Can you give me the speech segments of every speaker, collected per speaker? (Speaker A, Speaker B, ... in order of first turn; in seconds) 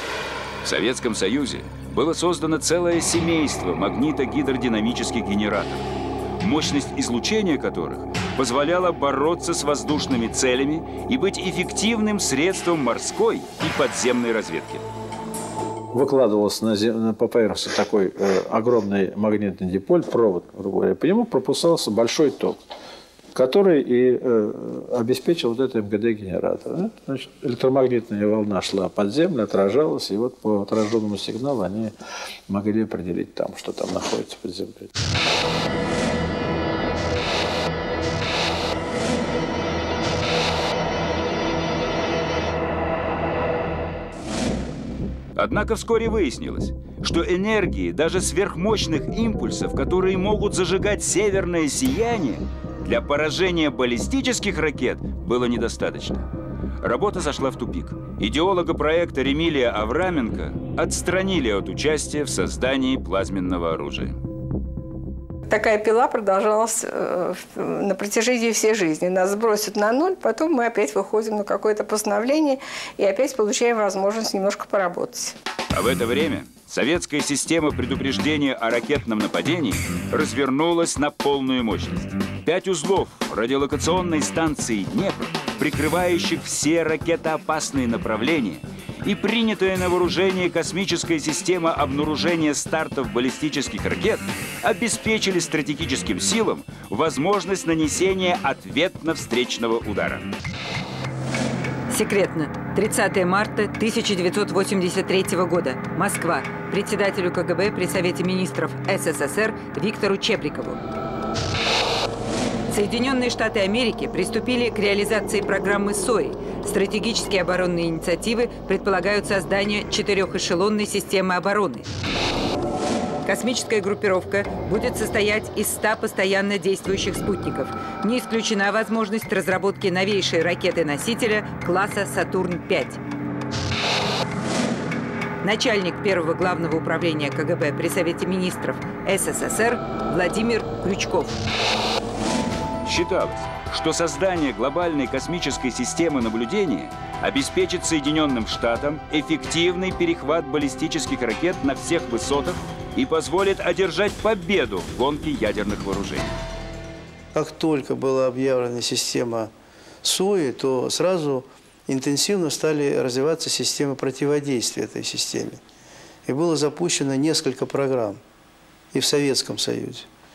Speaker A: 0.6-5.9, 6.4-14.8, 45.4-56.2, 56.8-64.2, 75.7-100.3, 142.8-156.4
Speaker B: 15.9-22.6, 23.3-31.9, 32.5-34.9
Speaker C: 65.5-75.3
Speaker D: 101.9-110.8, 112.7-121.9, 123.2-133.0, 135.4-141.4
Speaker E: 157.3-159.5, 160.0-165.6, 166.2-168.2, 168.9-170.1